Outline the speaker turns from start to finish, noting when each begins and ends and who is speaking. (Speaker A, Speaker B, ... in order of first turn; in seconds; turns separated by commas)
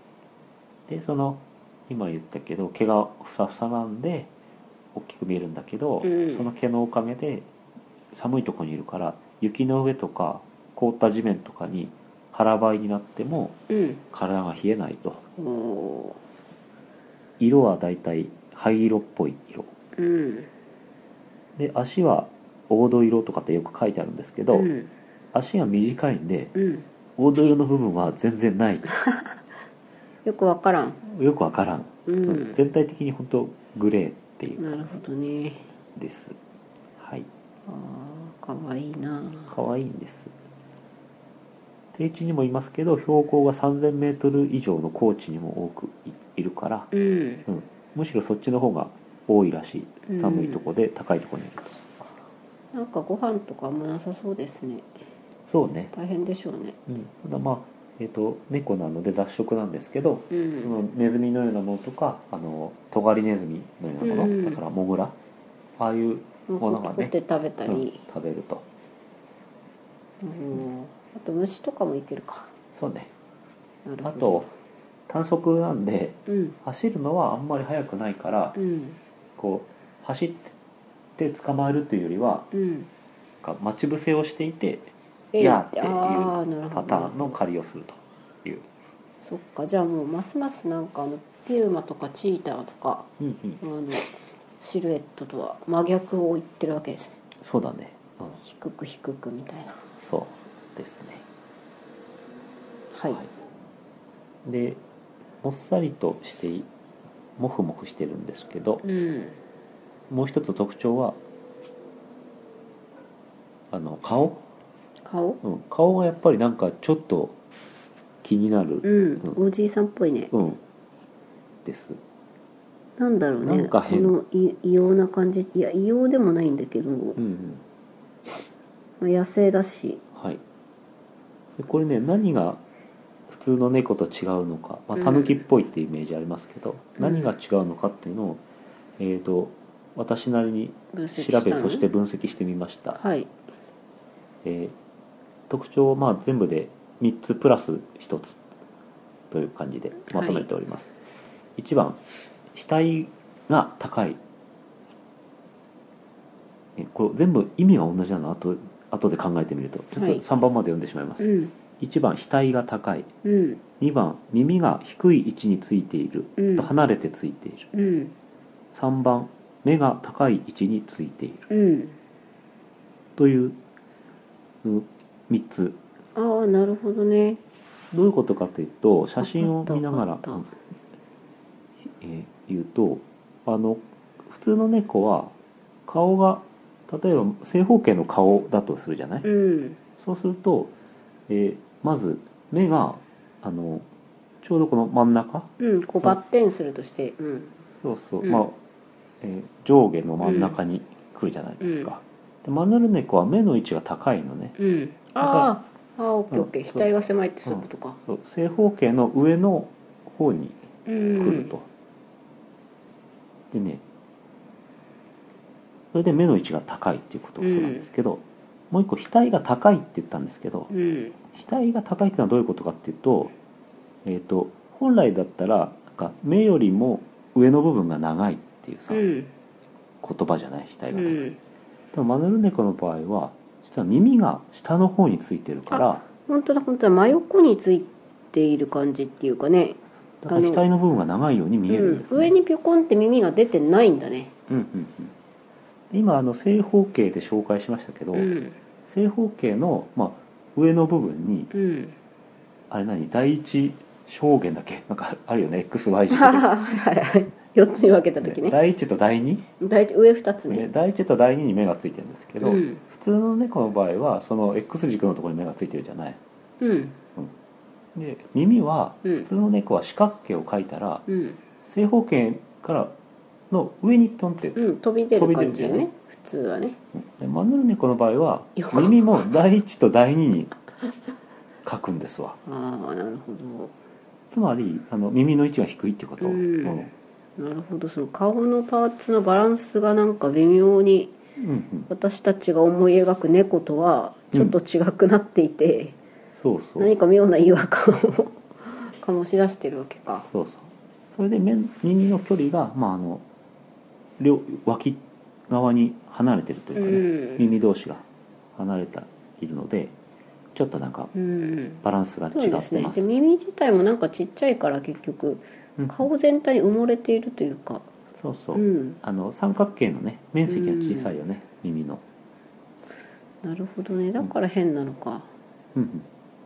Speaker A: 0.9-4.3, Speaker A: 4.9-7.5, Speaker B: 6.0-6.5, Speaker A: 8.1-15.2, Speaker B: 13.7-14.0, Speaker B: 15.4-16.2, Speaker A: 17.4-19.7, Speaker B: 20.0-20.5, Speaker A: 21.6-24.7, Speaker B: 24.5-24.9, Speaker A: 25.3-26.6, Speaker B: 26.6-26.9, Speaker A: 27.2-28.9, Speaker B: 30.2-31.0, Speaker A: 31.0-34.9, Speaker B: 32.1-32.6, Speaker B: 34.6-35.7, Speaker A: 36.0-36.4, Speaker A: 37.0-37.3, Speaker B: 37.7-39.5, Speaker A: 39.5-40.3, Speaker A: 41.9-46.9, Speaker B: 46.9-47.5, Speaker A: 47.5-51.9, Speaker B: 50.1-50.7, Speaker B: 52.7-54.9, Speaker A: 55.5-55.9, Speaker B: 55.9-56.8, Speaker A: 56.9-65.2, Speaker B: 60.3-60.7, Speaker B: 64.0-64.6, Speaker A: 65.8-67.2, Speaker B: 66.5-68.0, Speaker A: 67.7-68.7, Speaker B: 70.2-72.5, Speaker A: 72.8-73.1, Speaker B: 73.8-74.5, Speaker A: 74.0-74.5, Speaker A: 75.1-78.6, Speaker B: 76.3-76.6, Speaker B: 78.5-79.0, Speaker A: 79.4-80.5, Speaker A: 81.2-82.5, Speaker B: 82.5-82.9, Speaker A: 83.4-88.7, Speaker B: 85.3-87.4, Speaker B: 89.2-97.2, Speaker A: 93.2-93.6, Speaker A: 97.4-98.4, Speaker B: 98.4-99.8, Speaker A: 100.0-101.2, Speaker B: 102.9-103.2, Speaker A: 104.5-104.8, Speaker A: 105.4-106.7, Speaker A: 107.4-108.8, Speaker B: 108.8-109.4, Speaker A: 110.1-111.2, Speaker A: 113.7-114.4, Speaker B: 115.0-115.4, Speaker A: 115.4-117.4, Speaker A: 118.2-119.4, Speaker B: 118.8-120.3, Speaker A: 120.3-120.6, Speaker A: 121.7-122.0, Speaker B: 123.0-127.2, Speaker A: 123.4-124.1, Speaker A: 127.2-127.6, Speaker B: 129.0-130.0, Speaker A: 130.2-130.4, Speaker A: 131.6-132.6, Speaker A: 133.3-138.4, Speaker B: 134.9-135.4, Speaker B: 137.0-137.3, Speaker A: 139.0-143.0, Speaker B: 140.9-141.9, Speaker B: 143.0-143.3, Speaker A: 144.4-144.8, Speaker A: 145.5-148.4, Speaker A: 149.3-150.9, Speaker B: 150.1-150.5, Speaker A: 151.6-152.0, Speaker A: 152.5-154.2, Speaker A: 156.8-163.1, Speaker B: 159.9-160.2, Speaker B: 161.2-161.6, Speaker B: 163.2-163.6, Speaker A: 163.8-167.7, Speaker B: 166.4-166.7, Speaker B: 167.7-168.1, Speaker A: 168.7-171.5, Speaker B: 171.5-172.0, Speaker A: 173.2-173.6, Speaker A: 174.6-175.8, Speaker B: 176.2-177.4, Speaker A: 177.9-180.5, Speaker B: 179.2-180.5, Speaker A: 181.8-185.3, Speaker A: 185.9-189.3, Speaker B: 189.2-189.8, Speaker A: 190.0-190.7, Speaker A: 191.3-193.9, Speaker A: 194.4-195.5, Speaker B: 195.6-197.6, Speaker A: 197.7-198.6, Speaker B: 198.2-198.5, Speaker A: 199.2-204.6, Speaker B: 200.2-200.6, Speaker B: 201.6-201.9, Speaker B: 204.6-208.0, Speaker A: 205.2-205.5, Speaker A: 206.3-210.7, Speaker B: 210.9-211.6, Speaker A: 211.2-211.7, Speaker A: 213.5-213.8, Speaker A: 215.9-220.7, Speaker B: 217.4-217.9, Speaker B: 220.7-221.2, Speaker A: 221.3-223.3, Speaker A: 224.1-229.1, Speaker B: 228.9-229.3, Speaker A: 230.0-231.2, Speaker B: 230.9-231.4, Speaker A: 231.9-236.0, Speaker B: 235.7-240.6, Speaker A: 240.2-242.3, Speaker B: 241.7-244.3, Speaker A: 244.5-245.2, Speaker A: 245.9-251.5, Speaker B: 248.1-248.6, Speaker B: 251.5-252.0, Speaker A: 252.7-256.6, Speaker B: 256.1-258.6, Speaker A: 258.2-259.5, Speaker B: 259.6-260.7, Speaker A: 260.5-266.2, Speaker B: 262.4-262.8, Speaker B: 266.6-267.0, Speaker A: 267.9-271.1, Speaker B: 271.1-271.4, Speaker A: 271.6-273.0, Speaker A: 273.5-274.6, Speaker B: 274.6-276.8, Speaker A: 275.1-275.9, Speaker A: 276.9-280.5, Speaker B: 278.6-279.1, Speaker A: 281.6-282.4, Speaker B: 282.4-283.8, Speaker A: 284.3-286.9, Speaker B: 286.2-291.1, Speaker A: 291.4-291.9, Speaker B: 291.9-296.0, Speaker A: 296.4-296.9, Speaker B: 296.8-300.3, Speaker A: 300.2-303.2, Speaker A: 304.2-309.9, Speaker B: 306.8-307.5, Speaker A: 310.5-311.1, Speaker B: 311.1-317.9, Speaker A: 311.8-313.1, Speaker A: 315.8-316.1, Speaker A: 318.1-322.0, Speaker B: 318.5-319.0, Speaker B: 320.5-321.2, Speaker B: 323.4-325.3, Speaker A: 325.8-326.1